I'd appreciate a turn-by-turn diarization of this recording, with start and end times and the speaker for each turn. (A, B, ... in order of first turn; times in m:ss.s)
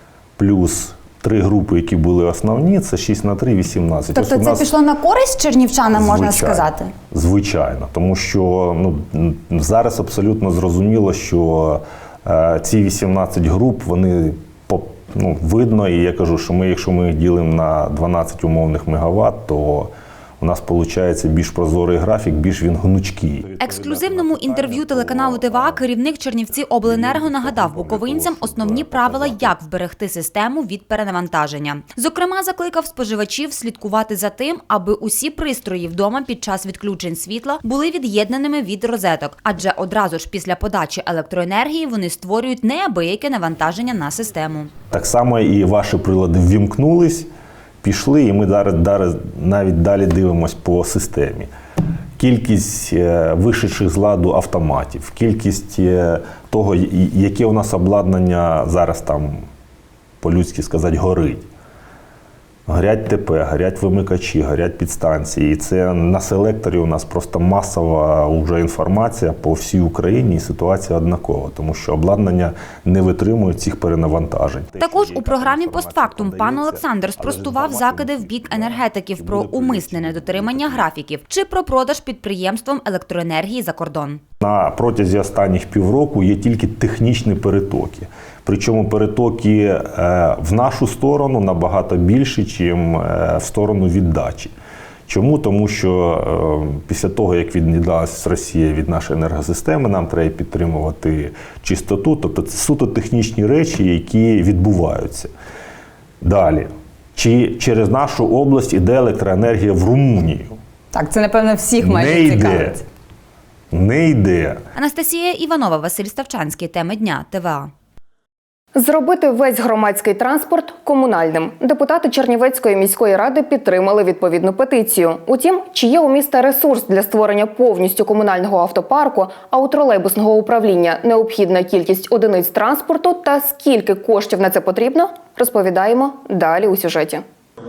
0:00.4-0:04.8 A
0:04.1-0:06.9 B
0:05.9-0:25.8 A
0:23.6-0:44.7 C
0:26.8-0:29.6 A
0:44.9-0:47.3 A
0:47.8-0:51.5 A
0:52.2-0:59.5 A
1:00.2-1:01.4 A
1:02.7-1:20.9 A
1:14.8-1:24.2 C
1:24.4-1:34.5 A
1:35.1-1:45.3 A
1:46.2-1:50.6 A
1:50.9-1:52.7 B
1:51.8-1:52.8 A
1:53.7-1:54.6 A
1:54.7-1:57.7 C
1:58.8-2:17.2 D